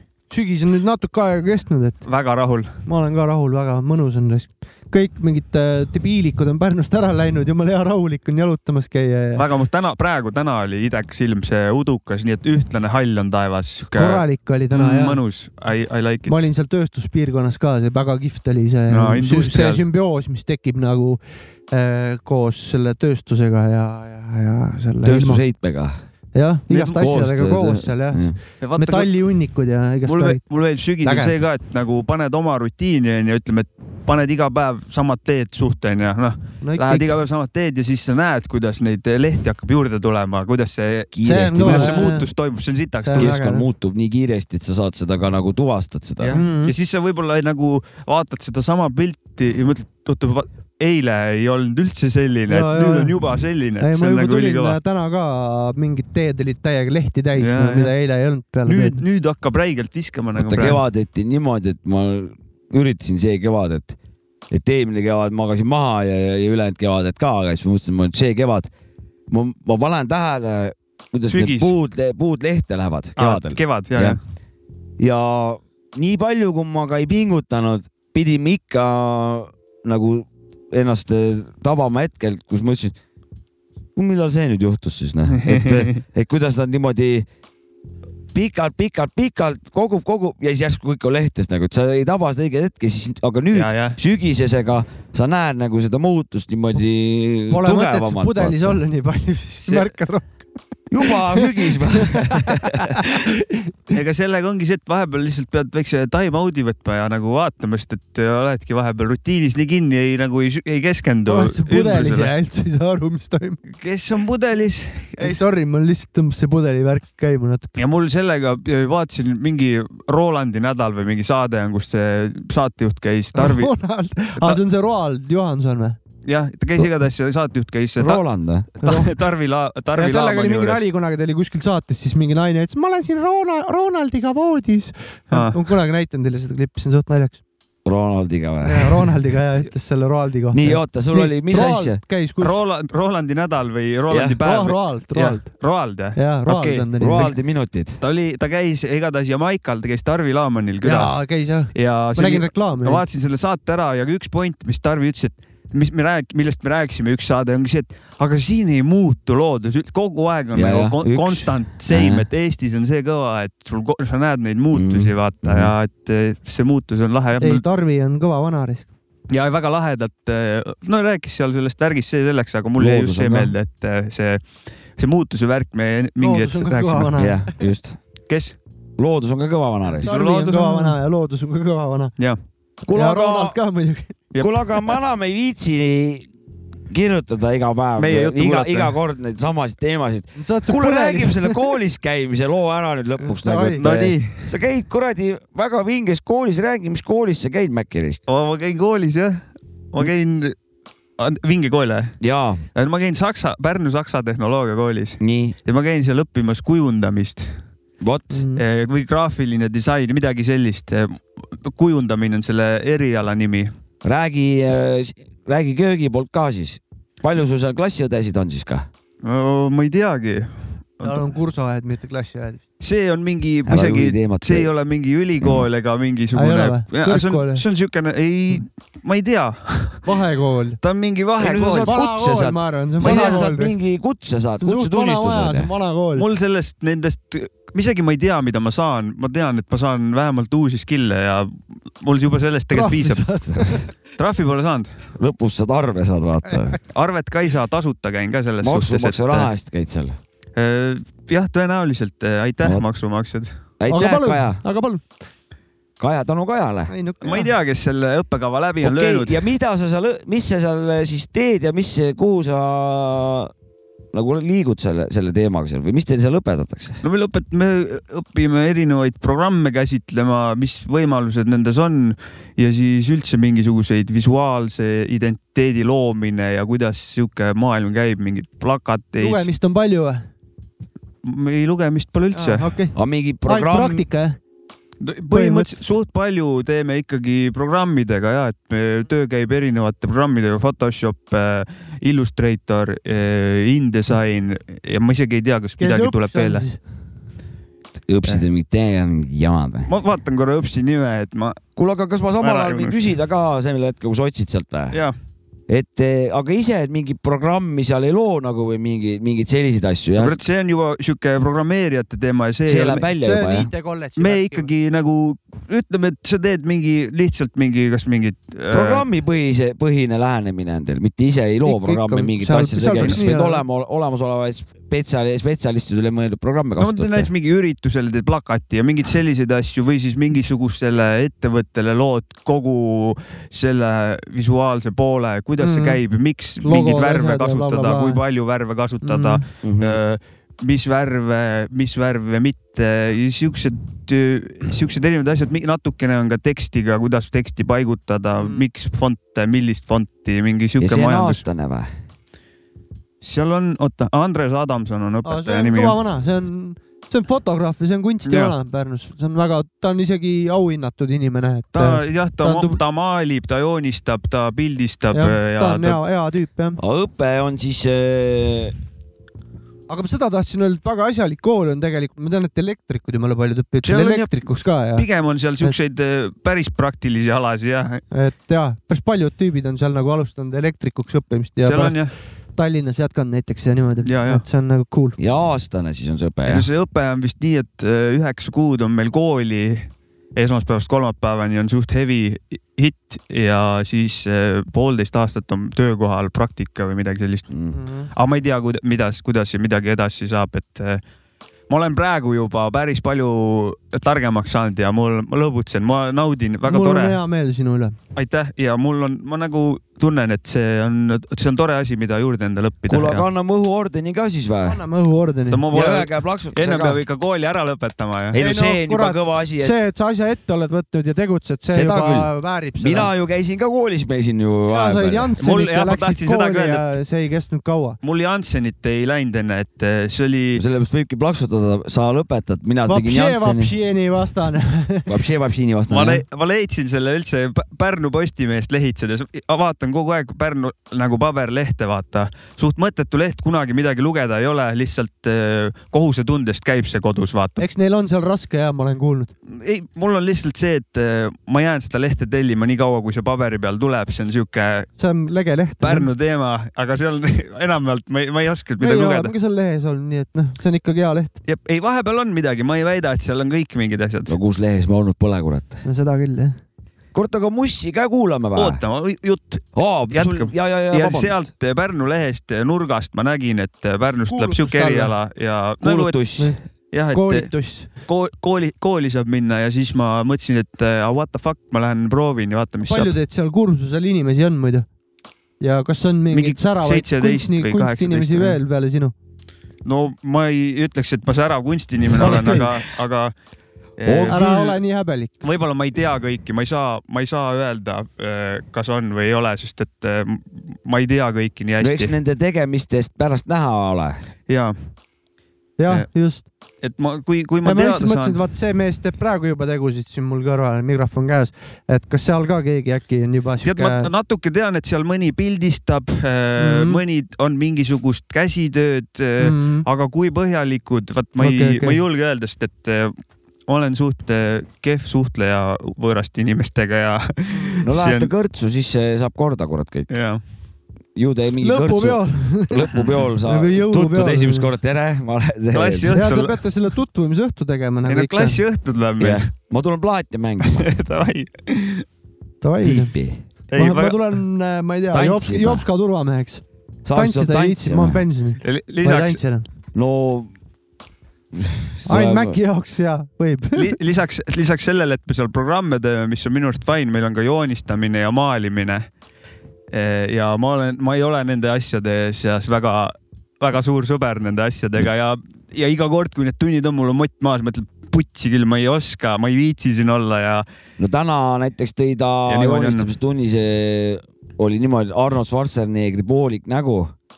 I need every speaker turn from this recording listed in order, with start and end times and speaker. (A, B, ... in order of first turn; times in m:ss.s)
0:00.3-0:02.0 A
0:02.0-0:02.8 B
0:02.8-0:09.4 A
0:09.4-0:16.4 B
0:13.9-0:15.2 A
0:16.3-0:25.4 A
0:18.9-0:19.8 B
0:25.0-0:25.9 C
0:26.3-0:28.2 A
0:26.7-0:28.4 C
0:28.6-0:29.1 B
0:28.8-0:30.4 A
0:30.0-0:43.3 B
0:31.0-0:31.3 A
0:36.6-0:37.1 A
0:41.1-0:42.2 C
0:41.2-0:42.2 A
0:43.0-0:43.6 A
0:43.1-0:46.4 C
0:46.2-0:54.8 B
0:46.3-0:46.7 A
0:52.5-0:53.1 A
0:53.8-0:59.0 A
0:57.4-0:57.9 B
0:58.6-1:00.8 B
1:00.4-1:04.0 C
1:04.5-1:08.7 C
1:09.3-1:14.2 C
1:11.3-1:11.7 B
1:13.2-1:14.2 B
1:15.0-1:22.9 C
1:24.0-1:27.2 C
1:25.4-1:26.0 B
1:28.3-1:38.8 C
1:33.5-1:34.0 B
1:37.5-1:40.4 A
1:40.9-1:43.0 C
1:41.3-1:43.6 A
1:43.9-1:52.3 B
1:51.2-1:53.6 A
1:53.7-1:55.4 B
1:55.2-1:57.7 A
1:57.8-2:03.7 B
2:03.4-2:06.0 A
2:06.2-2:08.2 B
2:08.0-2:08.7 C
2:08.8-2:10.8 B
2:08.8-2:09.2 A
2:09.9-2:17.4 A
2:15.3-2:15.6 B
2:17.8-2:19.1 C
2:18.6-2:22.6 A
2:20.5-2:22.0 C
2:22.4-2:27.3 B
2:24.1-2:24.4 C
2:24.4-2:25.6 A
2:26.1-2:27.3 A
2:27.0-2:28.0 C
2:28.0-2:47.6 B
2:30.8-2:33.0 A
2:40.5-2:42.2 C
2:44.7-2:45.7 C
2:47.4-2:48.9 A
2:49.3-2:54.4 B
2:52.8-2:53.5 C
2:55.0-2:57.2 B
2:56.2-2:57.4 A
2:57.2-2:58.0 C
2:58.3-2:58.6 B
2:59.0-3:00.1 C
3:00.0-3:01.0 B
3:00.0-3:02.1 A
3:02.8-3:03.6 C
3:02.9-3:04.2 A
3:04.3-3:04.9 B
3:04.4-3:06.3 C
3:06.9-3:18.2 C
3:08.0-3:08.9 B
3:10.4-3:11.7 A
3:13.2-3:13.8 A
3:13.8-3:14.5 B
3:18.3-3:20.5 B
3:21.2-3:22.1 B
3:22.2-3:22.6 C
3:22.8-3:27.6 B
3:25.2-3:25.5 C
3:28.0-3:28.4 C
3:28.3-3:28.6 A
3:28.6-3:33.7 B
3:34.0-3:38.9 C
3:39.2-3:41.3 B
3:41.0-3:42.6 A
3:42.8-3:50.1 B
3:43.7-3:44.7 C
3:45.4-3:45.6 C
3:46.3-3:47.6 A
3:50.0-3:50.8 A
3:50.8-3:51.9 B
3:51.4-3:55.7 C
3:51.5-3:53.7 A
3:53.0-3:53.4 B
3:54.6-3:56.2 A
3:56.1-4:03.3 B
4:02.7-4:03.9 A
4:04.2-4:05.0 B
4:05.2-4:06.8 C
4:06.9-4:09.5 B
4:08.6-4:10.2 C
4:10.6-4:13.5 B
4:13.8-4:14.6 C
4:13.9-4:15.0 A
4:16.0-4:16.9 C
4:16.9-4:17.5 A
4:17.2-4:19.4 B
4:18.8-4:23.5 C
4:24.1-4:27.0 C
4:27.0-4:39.5 B
4:39.2-4:40.2 A
4:41.2-4:42.7 B
4:42.3-4:42.9 A
4:42.9-4:44.0 C
4:43.4-4:44.4 A
4:45.0-4:56.6 B
4:45.3-4:45.8 A
4:55.8-4:56.8 A
4:58.0-4:59.9 C
4:59.9-5:01.6 B
5:01.8-5:05.0 C
5:02.4-5:03.1 B
5:05.7-5:10.4 C
5:10.2-5:13.0 B
5:12.7-5:13.7 C
5:13.1-5:14.7 A
5:14.2-5:19.0 B
5:18.7-5:27.3 C
5:21.6-5:23.6 A
5:23.0-5:23.2 B
5:26.8-5:51.4 B
5:35.6-5:36.0 A
5:36.6-5:38.2 A
5:39.0-5:39.4 A
5:39.6-5:40.0 C
5:50.8-5:51.9 C
5:53.2-5:56.0 B
5:55.2-6:02.8 A
5:58.3-5:58.5 B
6:01.7-6:06.0 B
6:05.1-6:06.8 A
6:06.8-6:08.7 C
6:09.9-6:15.0 A
6:13.8-6:14.4 B
6:14.9-6:18.0 B
6:18.1-6:22.0 A
6:21.6-6:22.1 B
6:22.5-6:25.2 A
6:24.0-6:24.4 B
6:25.2-6:26.7 C
6:26.4-6:37.5 B
6:37.7-6:38.1 A
6:38.1-6:41.0 B
6:41.7-6:47.2 B
6:46.6-6:47.9 A
6:48.1-6:53.2 B
6:52.9-6:54.8 C
6:54.6-6:55.6 A
6:55.5-6:58.4 B
6:55.7-6:57.0 C
6:58.3-6:59.7 C
6:58.4-7:03.1 A
7:01.7-7:05.3 C
7:04.7-7:08.0 A
7:05.4-7:06.9 B
7:08.0-7:10.6 B
7:10.5-7:13.7 C
7:12.8-7:15.1 A
7:15.1-7:16.2 C
7:15.9-7:27.6 B
7:27.6-7:29.3 A
7:29.5-7:34.9 B
7:35.0-7:36.1 A
7:35.8-7:39.3 B
7:38.8-7:41.4 A
7:41.4-7:44.3 B
7:44.3-7:45.8 C
7:45.8-7:46.6 A
7:47.1-7:48.8 C
7:48.5-7:56.2 B
7:49.7-7:51.4 C
7:54.3-7:55.1 A
7:55.8-7:56.6 C
7:56.9-8:03.2 B
7:57.1-7:57.9 A
8:02.9-8:04.9 A
8:05.6-8:09.1 A
8:06.3-8:08.6 B
8:09.8-8:13.3 B
8:12.1-8:12.8 C
8:12.2-8:12.7 A
8:14.0-8:14.8 B
8:14.0-8:14.5 C
8:14.3-8:15.3 A
8:15.4-8:22.1 B
8:21.8-8:24.3 C
8:24.5-8:24.8 B
8:25.8-8:26.5 A
8:26.8-8:28.4 B
8:27.6-8:34.1 A
8:33.6-8:43.1 B
8:36.6-8:37.0 A
8:39.4-8:39.8 A
8:41.4-8:42.0 A
8:43.7-8:48.3 B
8:47.8-8:50.1 C
8:50.1-8:50.4 B
8:51.1-8:56.1 C
8:51.6-8:52.9 A
8:53.4-8:54.7 A
8:55.7-8:56.6 B
8:56.1-8:58.6 A
8:58.1-8:59.5 B
8:59.2-9:00.9 C
9:00.6-9:02.0 B
9:02.6-9:03.1 A
9:02.8-9:03.4 C
9:03.7-9:04.4 B
9:03.7-9:09.6 A
9:05.1-9:05.8 C
9:07.0-9:08.2 C
9:08.6-9:09.4 B
9:09.9-9:10.5 C
9:11.6-9:12.6 C
9:12.1-9:14.0 A
9:13.7-9:19.1 B
9:19.9-9:30.6 B
9:31.0-9:37.1 C
9:32.5-9:33.1 B